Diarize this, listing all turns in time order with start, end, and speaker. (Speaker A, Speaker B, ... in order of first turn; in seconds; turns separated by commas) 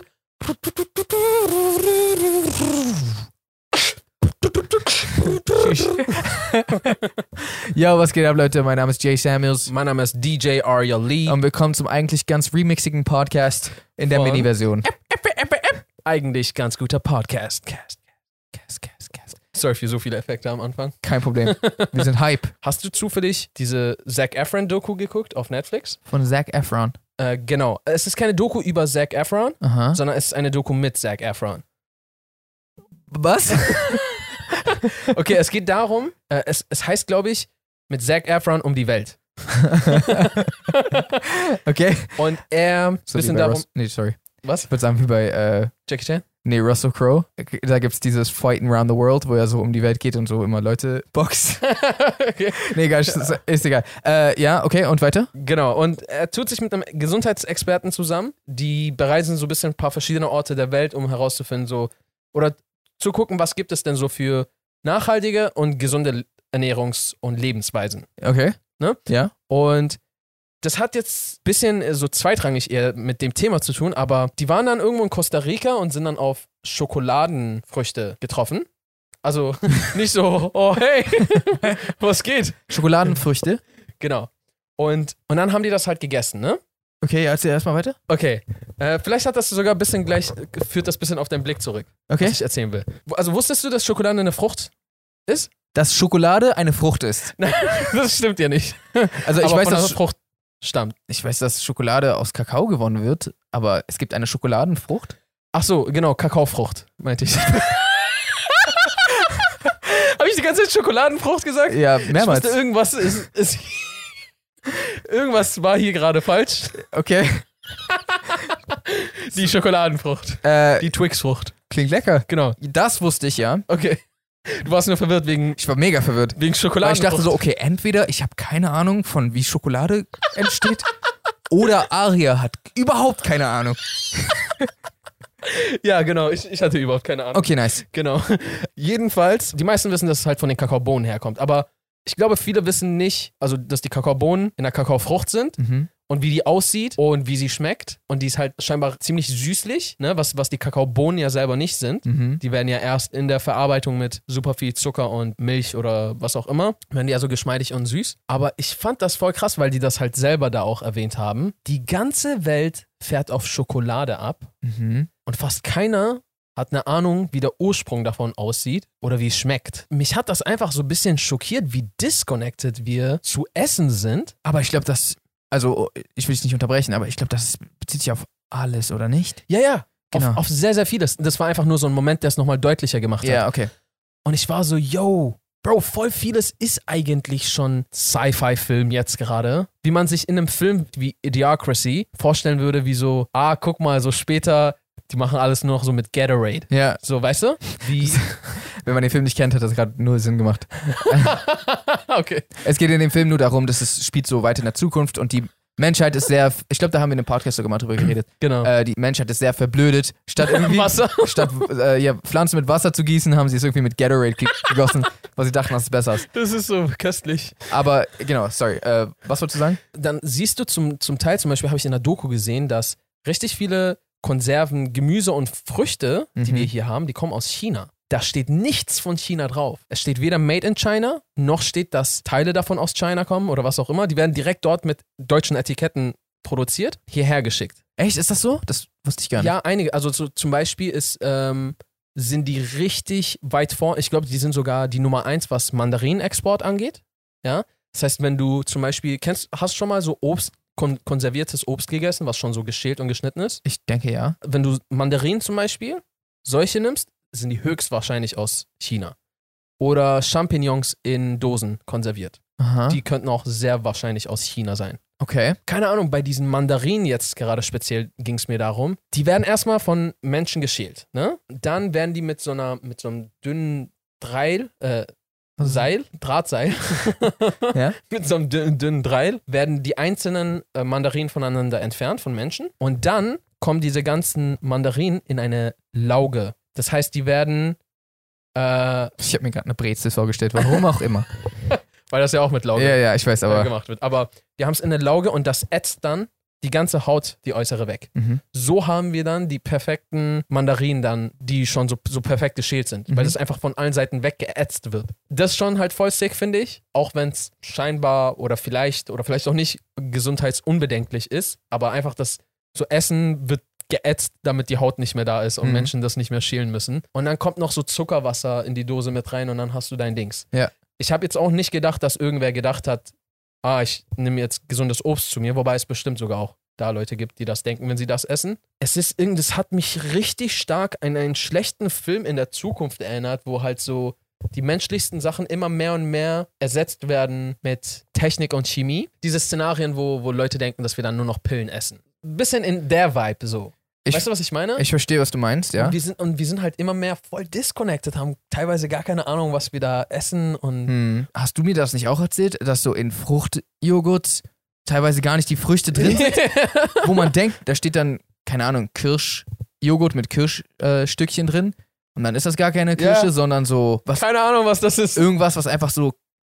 Speaker A: 0.4-2.8, Speaker A: 5.2-6.9, Speaker A: 7.7-9.7, Speaker B: 9.7-11.4, Speaker A: 11.3-14.9, Speaker B: 14.1-18.0, Speaker A: 18.5-19.3, Speaker B: 19.4-22.0, Speaker A: 21.0-22.5, Speaker B: 22.6-26.0, Speaker A: 26.1-26.9, Speaker B: 27.2-31.6, Speaker A: 29.6-30.0, Speaker A: 33.1-34.2, Speaker B: 33.7-34.1, Speaker B: 35.0-41.2, Speaker A: 39.7-40.5, Speaker A: 41.5-42.3, Speaker B: 42.2-43.7, Speaker A: 43.1-45.7, Speaker B: 44.4-44.7, Speaker B: 45.9-46.3, Speaker A: 46.4-51.7, Speaker B: 51.6-53.4, Speaker A: 52.7-55.3, Speaker B: 55.4-68.1, Speaker A: 68.2-69.3, Speaker B: 68.8-70.0, Speaker B: 70.6-78.7, Speaker B: 79.2-83.2, Speaker A: 82.7-83.6, Speaker B: 84.0-86.6, Speaker A: 87.0-88.0, Speaker B: 88.1-94.7, Speaker A: 92.1-92.4, Speaker B: 95.3-95.5, Speaker A: 95.7-97.3, Speaker B: 97.4-101.0, Speaker A: 99.2-100.0, Speaker A: 101.1-105.2, Speaker B: 105.5-114.1, Speaker A: 111.7-112.6, Speaker B: 114.7-116.8, Speaker A: 116.8-117.5, Speaker B: 117.8-121.5, Speaker A: 120.4-120.9, Speaker A: 121.7-123.7, Speaker B: 122.3-122.6, Speaker B: 123.7-125.6, Speaker A: 125.6-130.9, Speaker B: 126.4-127.4, Speaker A: 131.5-134.7, Speaker B: 135.4-164.5, Speaker A: 137.3-137.8, Speaker A: 145.6-145.9, Speaker A: 152.1-152.4, Speaker A: 164.6-165.1, Speaker B: 165.2-174.5, Speaker A: 174.5-179.4, Speaker B: 179.5-183.5, Speaker A: 180.1-180.4, Speaker A: 183.2-183.7, Speaker B: 184.2-198.7, Speaker A: 196.7-197.0, Speaker A: 197.6-201.4, Speaker B: 201.0-202.5, Speaker A: 202.6-216.3, Speaker B: 208.4-208.7, Speaker B: 210.4-211.7, Speaker B: 216.3-217.7, Speaker A: 217.7-219.8, Speaker B: 219.9-237.8, Speaker A: 226.4-226.7, Speaker A: 238.0-239.5, Speaker B: 239.4-253.6, Speaker A: 253.7-254.4, Speaker B: 254.4-259.1, Speaker B: 259.8-265.0, Speaker A: 262.6-263.0, Speaker A: 265.2-265.6, Speaker B: 265.7-275.1, Speaker A: 275.6-275.9, Speaker B: 275.6-287.8, Speaker B: 288.6-289.1, Speaker A: 289.2-291.3, Speaker B: 291.6-344.9, Speaker A: 292.8-293.7, Speaker A: 298.1-298.4, Speaker A: 303.1-303.4, Speaker A: 315.6-315.9, Speaker A: 344.1-346.0, Speaker B: 345.8-350.9, Speaker A: 350.9-364.2, Speaker B: 355.9-357.3, Speaker B: 362.9-363.3, Speaker B: 364.1-365.2, Speaker A: 365.1-366.1